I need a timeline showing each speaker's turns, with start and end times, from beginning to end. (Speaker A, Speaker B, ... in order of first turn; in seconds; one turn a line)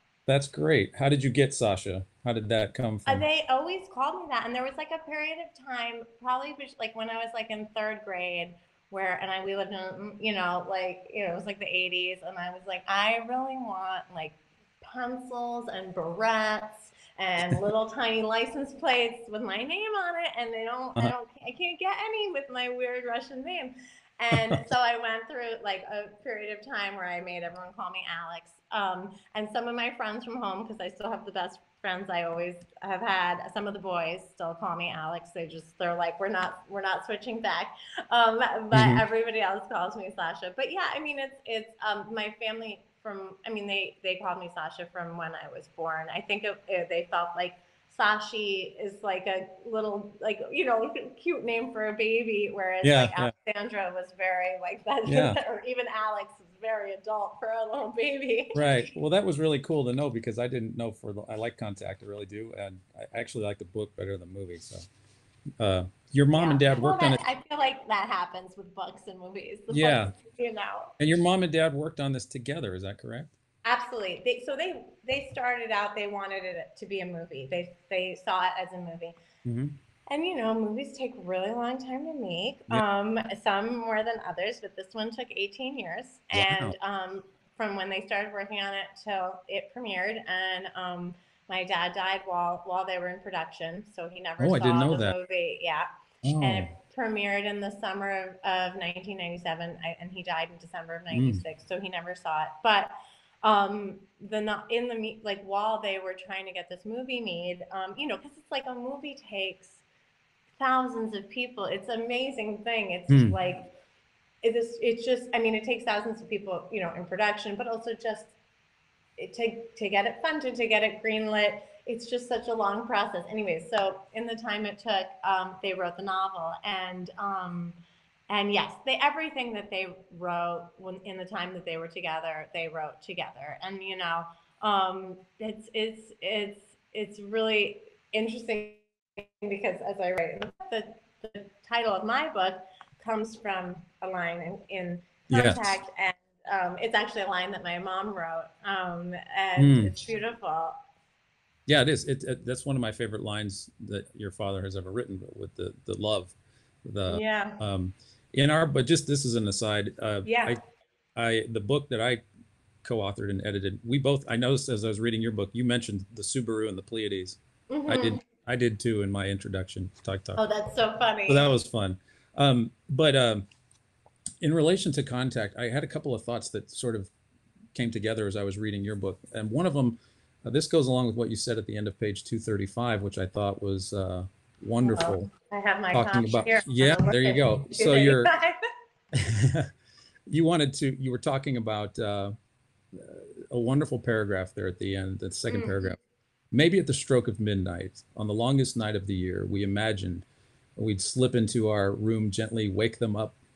Speaker A: 0.3-3.2
Speaker B: 3.1-58.8
Speaker A: 38.7-39.0
Speaker A: 52.8-53.3
Speaker A: 55.1-55.4
Speaker A: 58.5-64.8
Speaker A: 65.6-67.2
Speaker B: 66.3-70.9
Speaker A: 69.7-70.1
Speaker A: 71.0-73.3
Speaker B: 73.6-79.2
Speaker A: 79.4-79.8
Speaker B: 80.1-95.9
Speaker A: 86.3-86.7
Speaker A: 94.4-95.2
Speaker A: 96.2-96.7
Speaker B: 96.4-109.8
Speaker A: 101.1-101.4
Speaker B: 110.6-113.7
Speaker A: 113.1-113.3
Speaker B: 114.4-118.3
Speaker B: 119.2-127.8
Speaker B: 128.3-150.8
Speaker A: 145.3-145.8
Speaker A: 149.6-149.9
Speaker A: 151.7-160.6
Speaker B: 157.1-157.6
Speaker B: 160.2-160.6
Speaker A: 161.2-162.2
Speaker A: 162.8-170.4
Speaker B: 167.7-168.2
Speaker B: 170.3-171.5
Speaker A: 171.3-173.4
Speaker A: 174.4-177.1
Speaker A: 177.7-185.3
Speaker B: 184.8-188.6
Speaker A: 185.9-188.3
Speaker A: 189.1-189.7
Speaker A: 190.3-192.3
Speaker A: 192.9-196.0
Speaker B: 195.5-195.8
Speaker A: 196.5-203.4